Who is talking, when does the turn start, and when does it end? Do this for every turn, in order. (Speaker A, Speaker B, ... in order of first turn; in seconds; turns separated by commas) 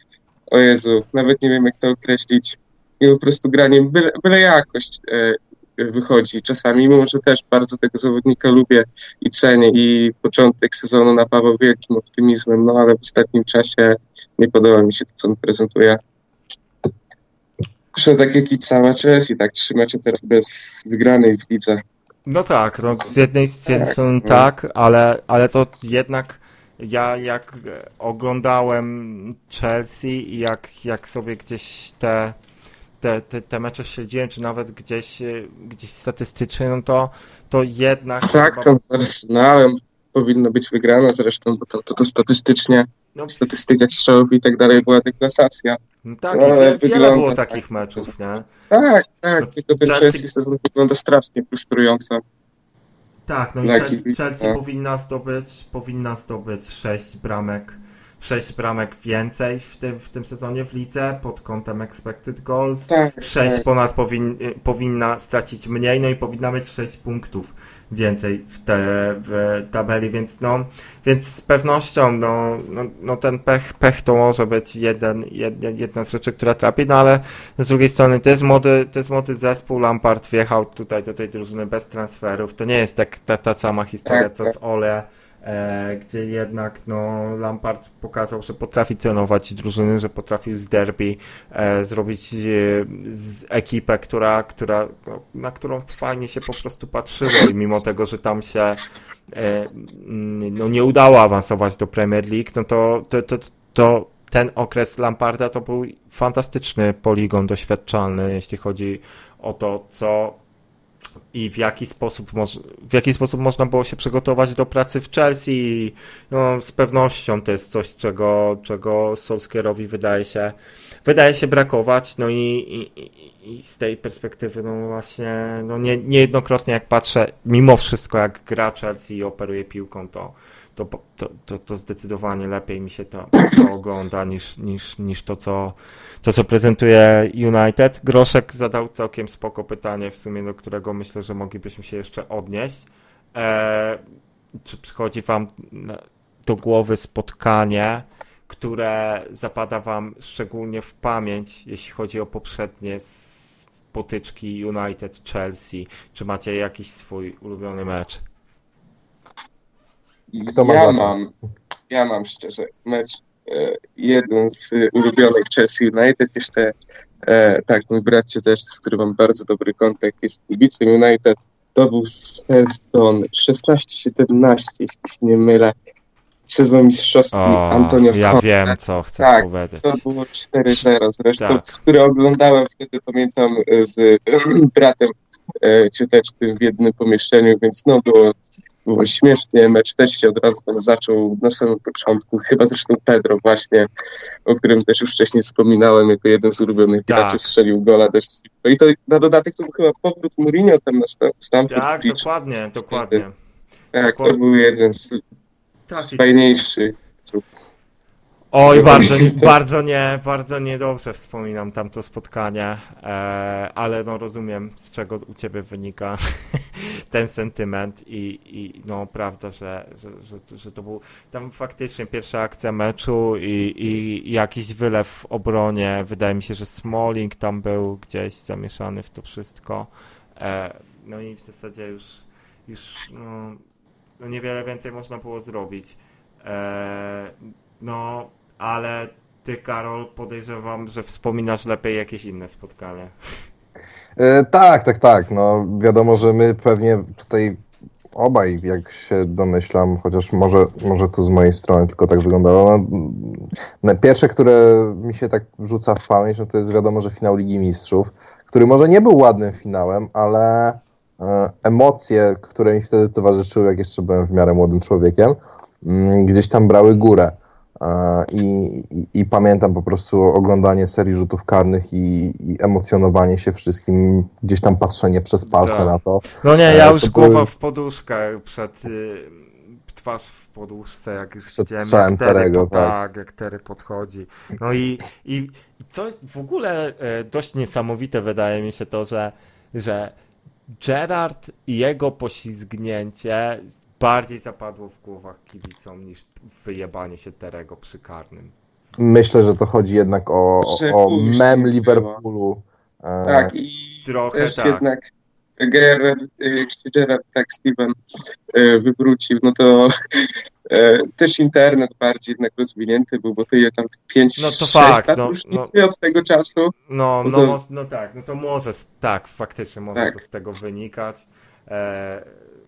Speaker A: 0.5-16.0, Speaker A: 17.9-21.8, Speaker B: 22.2-32.4, Speaker A: 23.7-24.4, Speaker B: 33.0-38.8, Speaker A: 38.3-45.8, Speaker B: 43.1-43.5, Speaker B: 46.0-48.5, Speaker A: 46.3-47.6, Speaker A: 48.7-52.2, Speaker B: 49.4-50.3, Speaker B: 53.3-98.8, Speaker A: 53.6-54.6, Speaker A: 62.9-63.6, Speaker A: 84.1-84.5, Speaker B: 99.3-110.4, Speaker B: 111.3-144.0, Speaker B: 144.6-158.2, Speaker A: 160.3-161.3, Speaker C: 160.4-161.2, Speaker A: 161.9-175.7, Speaker A: 176.5-193.9, Speaker B: 177.3-180.0, Speaker B: 181.4-181.7, Speaker A: 194.4-202.2, Speaker B: 197.1-197.4, Speaker B: 201.7-203.3, Speaker A: 202.9-203.2, Speaker A: 203.9-205.2, Speaker B: 204.0-204.4, Speaker B: 205.9-206.2, Speaker A: 205.9-207.4, Speaker B: 208.5-233.6, Speaker A: 208.7-209.5, Speaker B: 234.2-243.1, Speaker C: 244.2-247.6, Speaker C: 248.1-277.5, Speaker B: 275.5-290.1, Speaker C: 281.5-282.9, Speaker B: 290.8-298.5, Speaker C: 299.0-303.5, Speaker A: 300.6-302.2, Speaker A: 303.2-307.9, Speaker B: 304.0-304.9, Speaker A: 308.5-316.7, Speaker B: 314.4-315.7, Speaker B: 316.9-322.4, Speaker A: 317.2-317.6